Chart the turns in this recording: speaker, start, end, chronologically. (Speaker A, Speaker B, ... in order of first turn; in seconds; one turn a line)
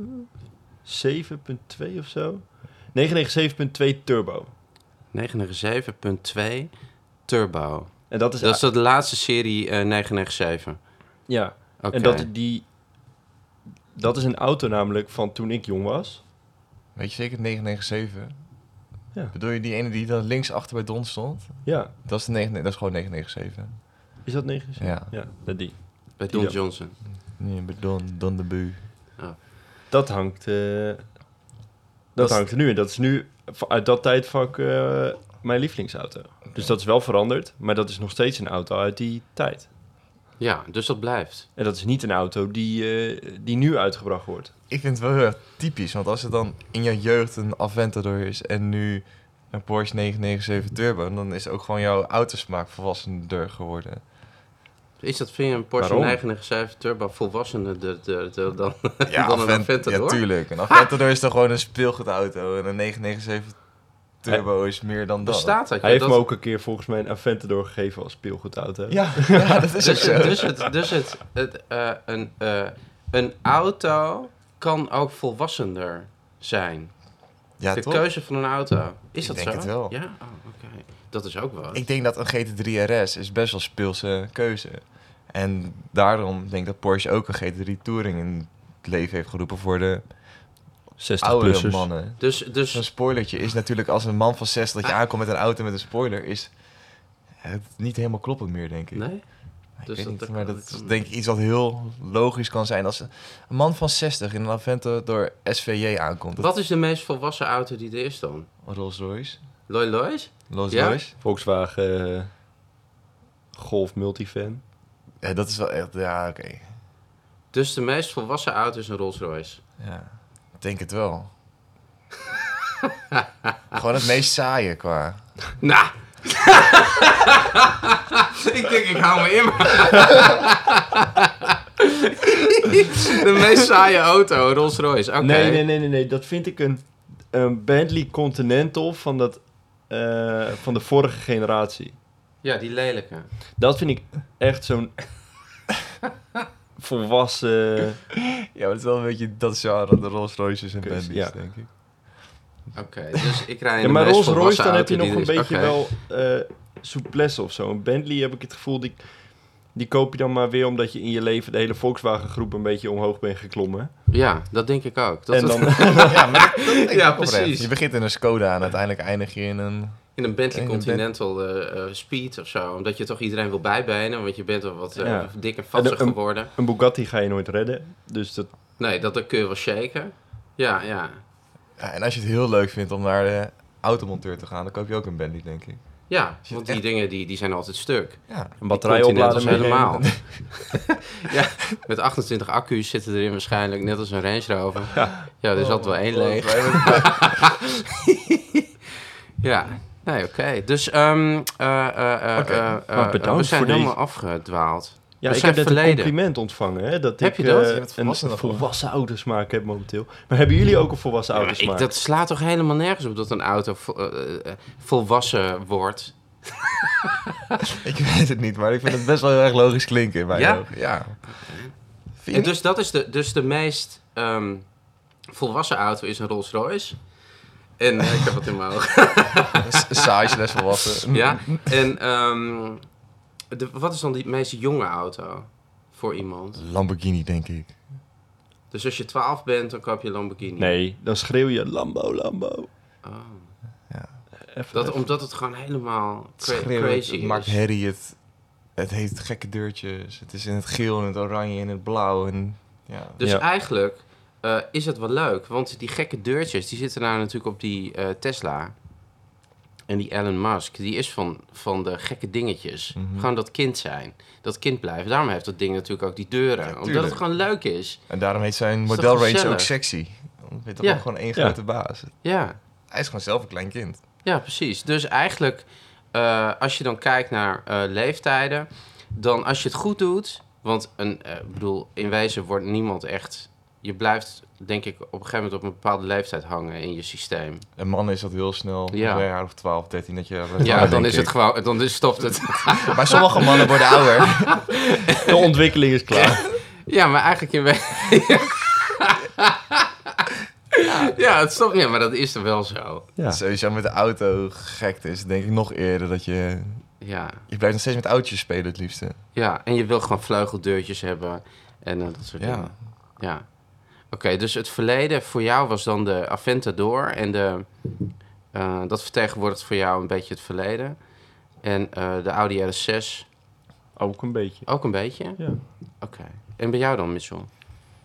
Speaker A: 0.8-4.5
Speaker B: 5.1-6.7
Speaker B: 7.2-10.8
Speaker A: 8.1-8.6
Speaker A: 11.3-12.7
Speaker B: 11.8-12.3
Speaker A: 13.9-16.2
Speaker C: 16.9-18.3
Speaker C: 19.3-24.0
Speaker A: 21.6-21.9
Speaker A: 24.2-26.6
Speaker C: 24.8-25.1
Speaker B: 26.2-27.0
Speaker C: 27.1-28.8
Speaker A: 29.9-31.1
Speaker A: 32.1-39.7
Speaker B: 40.4-41.5
Speaker A: 41.5-44.5
Speaker C: 44.7-54.0
Speaker B: 55.0-60.9
Speaker A: 55.8-56.2
Speaker C: 59.0-63.6
Speaker C: 64.2-65.6
Speaker B: 65.2-66.2
Speaker A: 65.8-70.2
Speaker C: 68.9-70.6
Speaker B: 69.8-77.0
Speaker C: 77.6-78.0
Speaker B: 77.7-81.8
Speaker C: 79.2-79.9
Speaker C: 81.7-90.1
Speaker A: 91.0-91.9
Speaker C: 91.2-96.5
Speaker B: 92.2-92.8
Speaker C: 97.4-99.1
Speaker B: 98.9-100.9
Speaker C: 99.8-106.5
Speaker B: 106.4-108.5
Speaker C: 108.6-109.4
Speaker B: 109.7-111.0
Speaker C: 110.5-111.1
Speaker A: 111.2-112.3
Speaker A: 113.5-114.6
Speaker C: 115.2-116.7
Speaker B: 117.5-119.6
Speaker C: 119.8-121.3
Speaker C: 123.7-125.2
Speaker B: 125.6-135.6
Speaker A: 135.2-141.9
Speaker B: 142.4-143.3
Speaker A: 143.6-145.0
Speaker A: 146.8-148.0
Speaker C: 148.2-151.7
Speaker A: 150.8-151.3
Speaker B: 152.7-155.8
Speaker A: 153.8-159.1
Speaker A: 159.6-163.9
Speaker B: 164.1-167.7
Speaker A: 165.3-166.2
Speaker C: 166.0-171.0
Speaker B: 170.2-176.5
Speaker A: 175.0-178.5
Speaker B: 178.8-181.2
Speaker C: 181.8-186.8
Speaker B: 186.1-198.6
Speaker C: 188.3-188.5
Speaker A: 188.6-190.1
Speaker C: 189.3-190.5
Speaker A: 194.9-195.2
Speaker C: 195.5-197.5
Speaker B: 199.4-206.1
Speaker C: 202.3-202.8
Speaker A: 202.9-203.9
Speaker A: 205.2-211.9
Speaker B: 207.2-207.8
Speaker C: 207.6-208.7
Speaker B: 211.4-217.1
Speaker C: 217.7-221.2
Speaker B: 220.3-221.7
Speaker C: 222.2-222.5
Speaker B: 222.3-224.7
Speaker B: 225.3-227.0
Speaker B: 227.8-232.8
Speaker C: 229.6-231.8
Speaker B: 233.5-236.6
Speaker C: 236.6-237.8
Speaker B: 238.7-240.7
Speaker A: 240.6-242.7
Speaker B: 243.0-243.5
Speaker A: 244.5-245.1
Speaker B: 244.7-247.6
Speaker C: 246.4-248.2
Speaker C: 248.8-253.2
Speaker B: 253.2-258.7
Speaker B: 259.9-268.0
Speaker C: 262.9-263.3
Speaker C: 266.6-267.2
Speaker C: 268.1-272.1
Speaker B: 268.9-269.7
Speaker B: 272.2-272.6
Speaker C: 272.9-274.0
Speaker B: 274.2-287.6
Speaker C: 287.8-291.3
Speaker B: 288.9-289.2
Speaker B: 290.6-295.5
Speaker A: 290.7-291.0
Speaker C: 292.6-294.7
Speaker A: 295.2-296.4
Speaker B: 296.1-303.1
Speaker C: 300.8-301.1
Speaker C: 303.3-306.8
Speaker B: 307.0-307.4
Speaker C: 307.5-309.2
Speaker B: 309.3-313.4
Speaker C: 312.4-312.7
Speaker B: 314.1-317.7
Speaker B: 318.5-321.0
Speaker B: 321.6-323.2
Speaker A: 323.9-324.7
Speaker B: 324.6-327.5